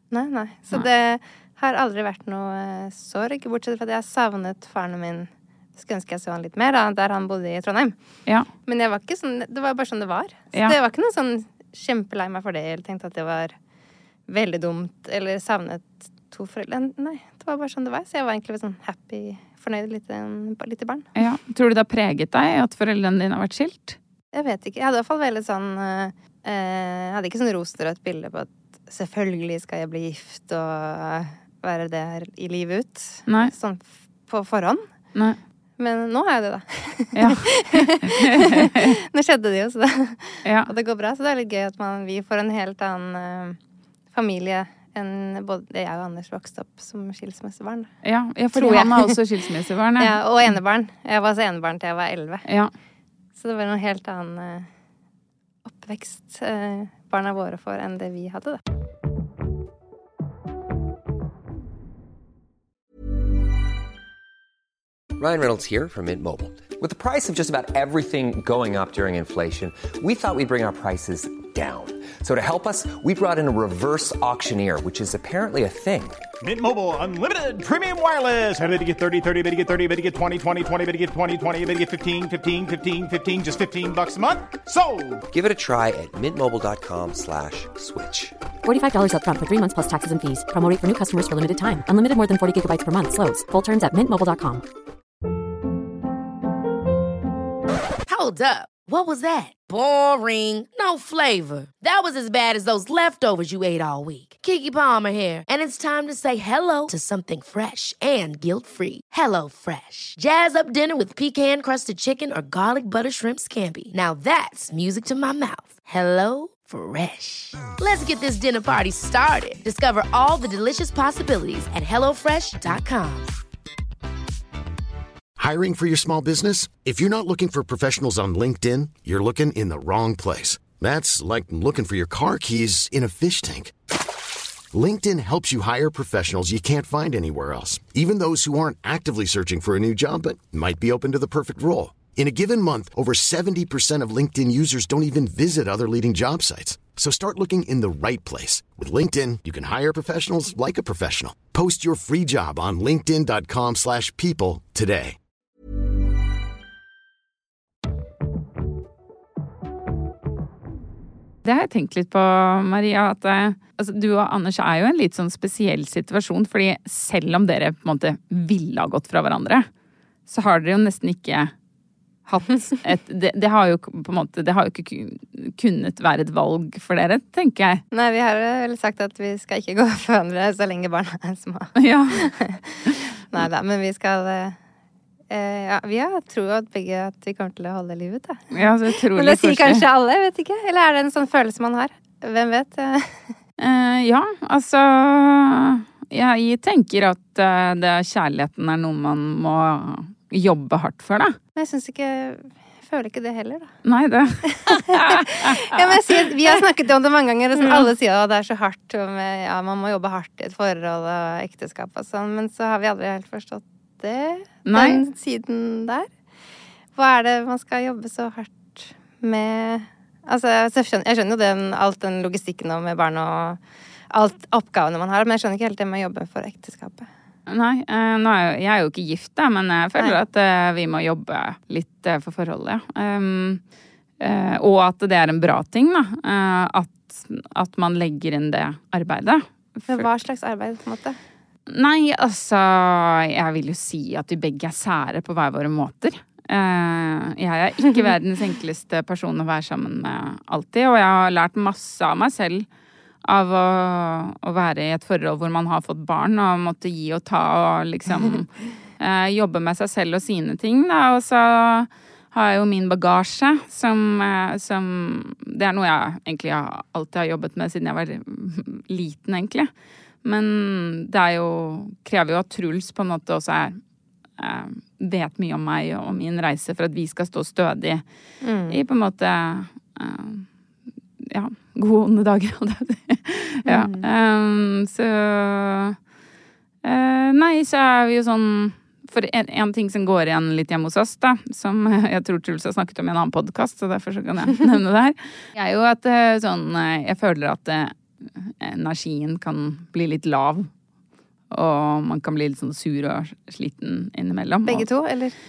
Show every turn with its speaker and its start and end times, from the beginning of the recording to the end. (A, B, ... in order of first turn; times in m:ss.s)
0:00.1-0:08.0 A
0:08.6-0:13.6 A
0:14.3-0:21.1 A
0:21.2-0:24.0 B
0:24.3-0:34.8 A
0:35.8-0:43.6 A
0:37.2-0:39.0 B
0:40.4-0:40.7 B
0:44.1-0:48.0 A
0:48.0-0:50.2 B
0:48.5-0:49.2 A
0:50.0-0:52.4 A
0:52.5-0:52.7 B
0:53.4-0:54.7 A
0:55.6-0:58.6 A
1:05.2-1:16.2 C
1:16.4-1:25.2 D
1:25.3-1:28.4 C
1:28.6-1:34.6 E
1:38.1-2:03.3 F
2:05.4-2:13.7 G
2:14.7-2:35.2 G
2:41.4-2:49.7 B
2:50.3-2:51.5 B
2:52.3-2:57.8 B
2:57.9-3:04.6 A
3:01.8-3:02.4 B
3:05.3-3:08.5 A
3:08.5-3:09.8 B
3:09.1-3:13.3 A
3:13.6-3:21.4 B
3:21.6-3:23.7 A
3:23.8-3:25.9 B
3:24.5-3:36.1 A
3:27.6-3:27.9 B
3:34.7-3:35.0 B
3:37.0-3:43.6 A
3:44.1-3:47.1 A
3:47.5-3:53.6 B
3:54.2-4:00.1 B
3:59.9-4:01.2 A
4:01.7-4:12.7 B
4:13.2-4:29.7 B
4:30.2-4:33.8 B
4:34.4-4:38.0 B
4:38.4-4:38.8 A
4:38.7-4:40.5 B
4:41.2-4:46.0 B
4:43.7-4:44.1 A
4:46.8-5:00.7 B
5:01.5-5:04.9 B
5:04.7-5:05.4 A